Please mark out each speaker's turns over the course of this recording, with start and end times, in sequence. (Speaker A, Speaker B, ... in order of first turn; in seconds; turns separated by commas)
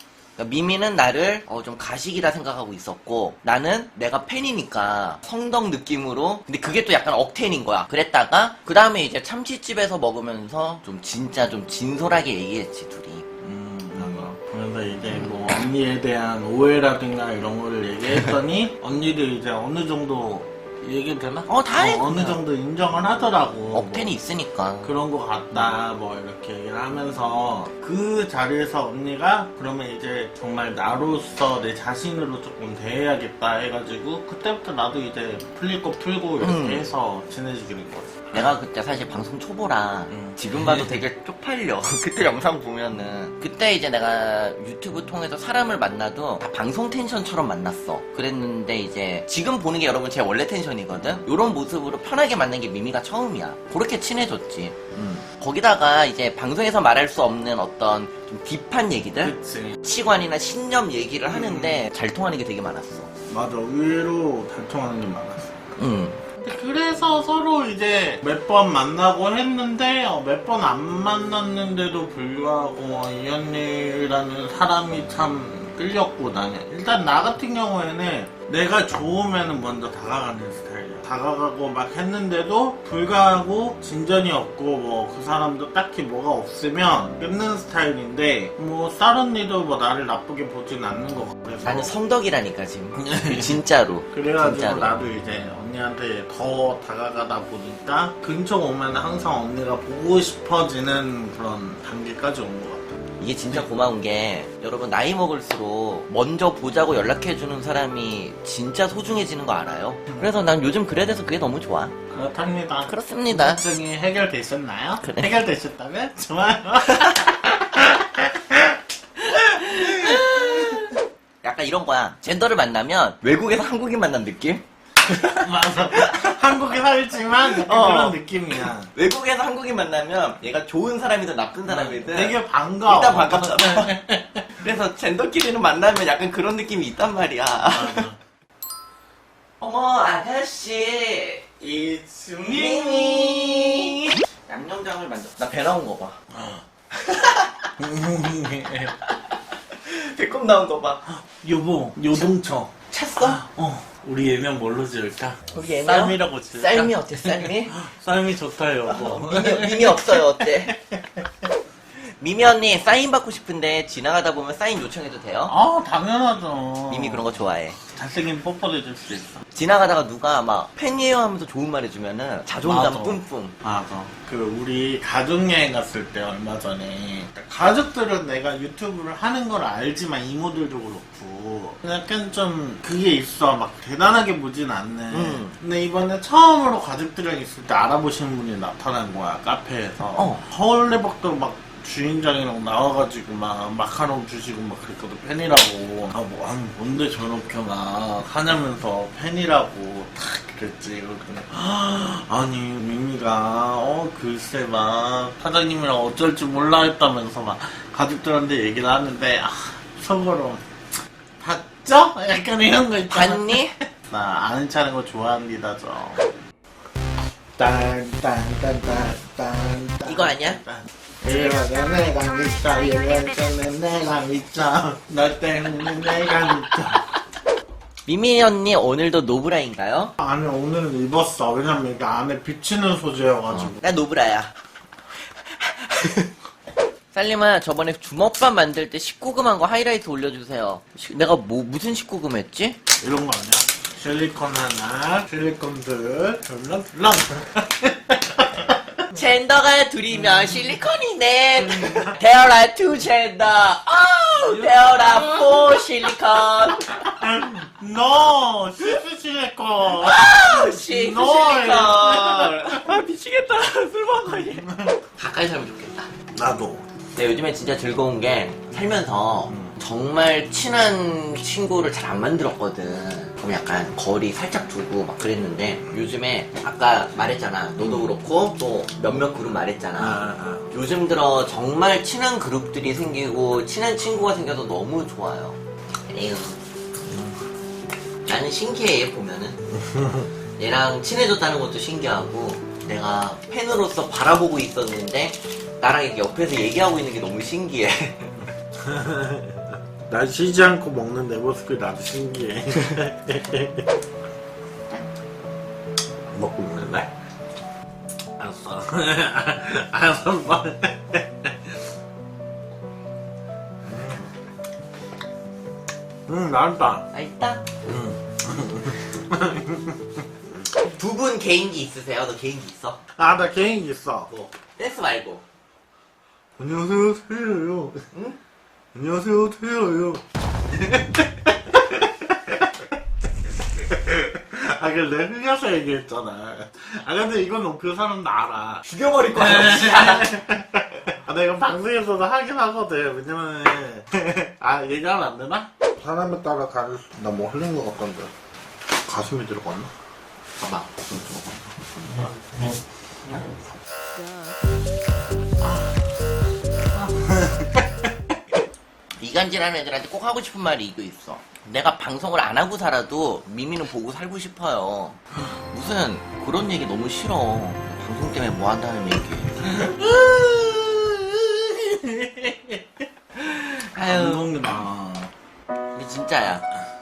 Speaker A: 0.4-13.2, Speaker B: 13.4-24.1, Speaker A: 13.9-14.3, Speaker A: 18.1-18.4, Speaker A: 21.5-22.4, Speaker A: 23.7-24.9, Speaker B: 24.8-38.6, Speaker A: 36.4-36.9, Speaker A: 38.3-63.1, Speaker B: 40.1-41.0, Speaker B: 59.2-59.8, Speaker B: 61.3-61.9, Speaker B: 63.3-65.6, Speaker A: 65.8-66.3, Speaker B: 66.4-91.9, Speaker A: 91.6-94.9, Speaker B: 92.9-93.6, Speaker B: 94.1-102.9, Speaker A: 103.2-111.9, Speaker B: 110.1-110.3, Speaker B: 112.1-120.9, Speaker A: 112.9-113.6, Speaker A: 115.0-115.4, Speaker A: 116.9-117.1, Speaker A: 119.2-126.4, Speaker B: 125.4-128.9, Speaker A: 127.4-133.9, Speaker B: 131.7-134.6, Speaker A: 134.6-138.1, Speaker B: 137.6-138.2, Speaker A: 139.6-141.4, Speaker B: 141.6-144.0, Speaker A: 142.5-146.2, Speaker B: 146.3-146.6, Speaker A: 146.9-147.7, Speaker B: 147.8-148.9, Speaker A: 148.9-151.0, Speaker B: 151.1-161.3, Speaker A: 152.9-153.4, Speaker A: 155.5-157.7, Speaker A: 158.9-160.8, Speaker A: 162.0-165.5, Speaker B: 165.5-169.4, Speaker A: 166.9-167.8, Speaker A: 169.5-173.5, Speaker B: 172.6-210.6, Speaker A: 185.1-185.6, Speaker A: 190.1-190.4, Speaker B: 211.4-216.2, Speaker A: 213.1-213.7, Speaker B: 217.6-227.1, Speaker A: 220.0-220.6, Speaker A: 228.1-230.1, Speaker B: 230.2-233.8, Speaker A: 233.5-234.5, Speaker A: 235.4-236.3, Speaker A: 237.1-242.8, Speaker B: 243.0-249.2, Speaker A: 249.1-257.2, Speaker B: 250.1-250.8, Speaker B: 251.6-252.2, Speaker B: 254.4-255.6, Speaker B: 257.1-262.9, Speaker A: 259.9-266.1, Speaker B: 264.4-265.0, Speaker B: 266.3-266.8, Speaker A: 267.1-286.6, Speaker B: 269.5-269.8, Speaker B: 277.8-278.1, Speaker B: 280.0-280.7, Speaker A: 288.2-289.6, Speaker B: 289.9-290.3, Speaker A: 290.6-298.5, Speaker B: 298.8-303.9, Speaker B: 306.3-307.1, Speaker B: 308.4-311.7, Speaker B: 313.8-314.3, Speaker B: 316.3-317.1, Speaker A: 317.1-317.6, Speaker B: 317.8-320.2, Speaker A: 320.8-323.0, Speaker B: 323.1-324.3, Speaker A: 324.3-325.4, Speaker B: 326.6-328.1, Speaker A: 328.1-328.4, Speaker B: 328.9-332.9, Speaker B: 333.5-348.3, Speaker A: 338.9-340.3, Speaker B: 349.1-349.9, Speaker A: 350.6-351.1, Speaker B: 352.0-352.3, Speaker B: 355.6-355.9, Speaker B: 356.9-358.1, Speaker A: 359.2-365.2, Speaker A: 365.7-369.8, Speaker B: 369.6-373.0, Speaker A: 373.4-374.7, Speaker B: 374.1-375.3, Speaker A: 375.9-376.6